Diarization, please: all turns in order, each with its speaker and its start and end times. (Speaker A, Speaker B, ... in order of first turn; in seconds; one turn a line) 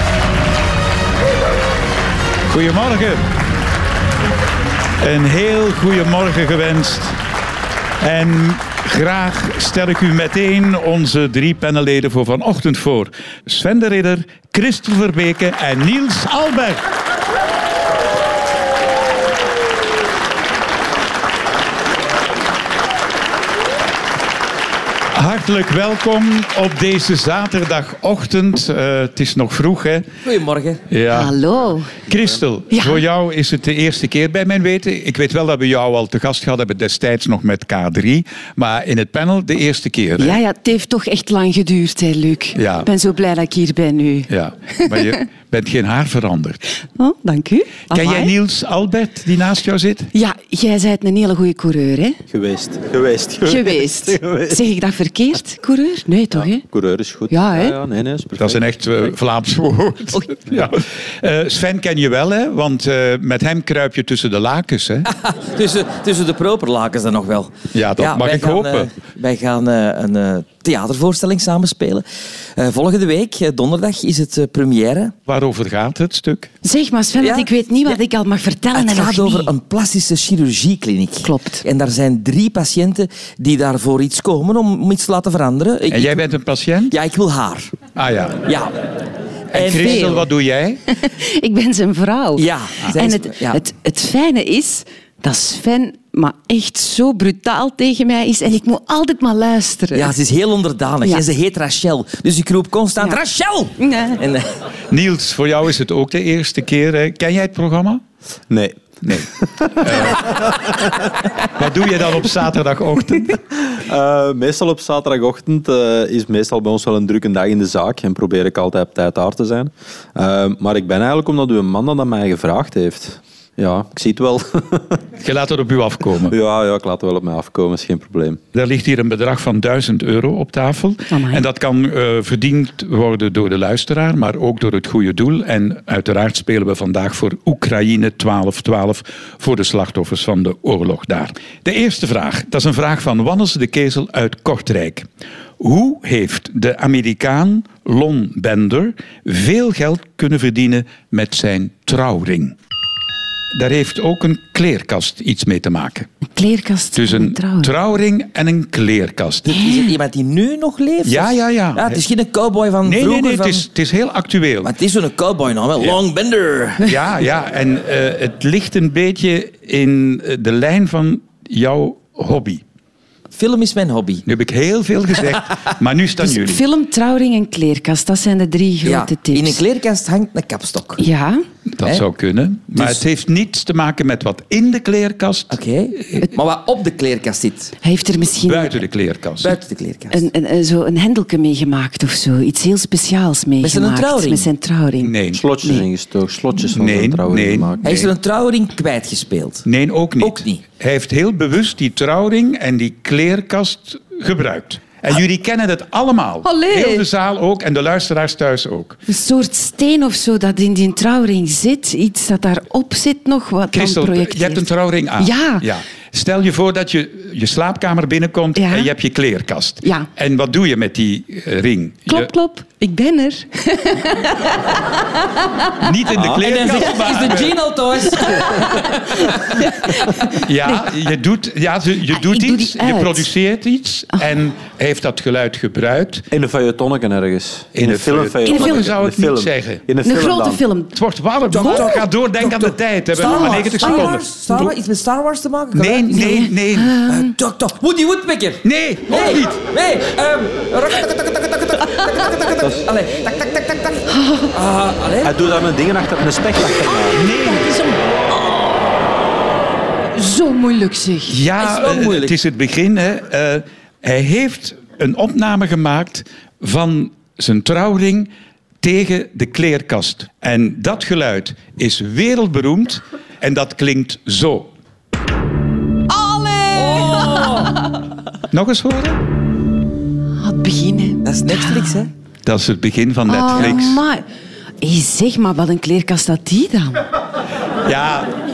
Speaker A: 2.5-3.2
Speaker A: 5.0-7.1
Speaker A: 8.0-16.8
Speaker A: 25.1-30.0
Speaker B: 30.2-30.8
Speaker A: 30.9-31.3
Speaker C: 31.1-31.9
Speaker A: 32.0-40.4
Speaker C: 32.7-33.0
Speaker C: 40.2-45.2
Speaker A: 42.5-42.9
Speaker A: 44.3-46.6
Speaker C: 47.0-48.3
Speaker A: 47.9-50.1
Speaker C: 50.1-52.2
Speaker D: 52.3-54.6
Speaker C: 53.4-56.6
Speaker D: 56.3-58.6
Speaker C: 57.3-57.8
Speaker A: 58.4-65.1
Speaker B: 65.1-72.0
Speaker A: 67.7-68.9
Speaker B: 72.6-75.1
Speaker A: 75.3-76.5
Speaker C: 76.6-79.5
Speaker B: 77.2-78.0
Speaker B: 78.7-86.2
Speaker C: 81.2-81.6
Speaker A: 85.9-87.0
Speaker B: 86.9-87.8
Speaker A: 87.9-88.4
Speaker B: 88.4-88.8
Speaker B: 89.5-90.3
Speaker A: 89.5-90.8
Speaker C: 89.7-90.2
Speaker C: 90.9-100.1
Speaker B: 92.3-93.6
Speaker B: 99.9-104.5
Speaker C: 103.8-104.2
Speaker A: 104.9-108.0
Speaker D: 108.5-110.5
Speaker A: 109.0-110.6
Speaker A: 111.5-113.4
Speaker D: 113.7-125.0
Speaker A: 125.2-126.3
Speaker D: 126.2-128.4
Speaker A: 128.5-145.1
Speaker C: 131.1-131.4
Speaker A: 145.6-152.5
Speaker A: 153.5-156.1
Speaker C: 156.3-157.7
Speaker A: 156.9-159.6
Speaker B: 159.5-163.7
Speaker C: 159.5-160.0
Speaker A: 161.0-162.0
Speaker A: 162.8-164.7
Speaker B: 164.6-166.9
Speaker A: 166.8-172.6
Speaker B: 173.3-174.2
Speaker A: 174.2-176.6
Speaker C: 176.2-179.6
Speaker B: 178.8-181.0
Speaker C: 181.0-181.4
Speaker A: 181.7-186.2
Speaker B: 182.7-183.0
Speaker B: 185.5-187.7
Speaker C: 187.8-188.8
Speaker A: 188.4-189.6
Speaker B: 189.4-190.2
Speaker C: 190.1-195.8
Speaker B: 193.6-194.5
Speaker A: 195.0-195.4
Speaker D: 195.3-198.1
Speaker A: 196.7-198.1
Speaker B: 197.8-199.7
Speaker A: 199.7-209.0
Speaker B: 200.2-200.6
Speaker C: 206.4-207.0
Speaker C: 209.1-214.7
Speaker A: 213.7-222.3
Speaker C: 215.2-215.7
Speaker C: 218.6-218.9
Speaker C: 222.1-225.9
Speaker A: 225.8-227.6
Speaker D: 226.1-226.4
Speaker B: 226.4-229.6
Speaker C: 228.2-230.9
Speaker A: 230.4-236.3
Speaker C: 232.1-233.3
Speaker D: 236.3-240.6
Speaker A: 237.7-239.8
Speaker C: 238.4-238.8
Speaker C: 240.0-240.9
Speaker A: 240.9-244.7
Speaker B: 241.5-246.4
Speaker C: 241.5-241.9
Speaker C: 243.2-244.1
Speaker A: 245.7-247.0
Speaker C: 246.1-247.3
Speaker B: 247.1-255.3
Speaker A: 248.6-249.6
Speaker C: 254.1-254.5
Speaker D: 255.2-257.2
Speaker A: 257.1-257.7
Speaker C: 260.1-261.4
Speaker A: 261.3-268.3
Speaker B: 261.6-262.3
Speaker A: 268.8-274.7
Speaker C: 276.1-277.8
Speaker B: 276.7-277.7
Speaker A: 278.5-279.2
Speaker C: 280.4-282.0
Speaker B: 281.2-282.1
Speaker A: 282.4-284.0
Speaker C: 283.3-284.2
Speaker C: 284.8-287.0
Speaker A: 287.8-288.3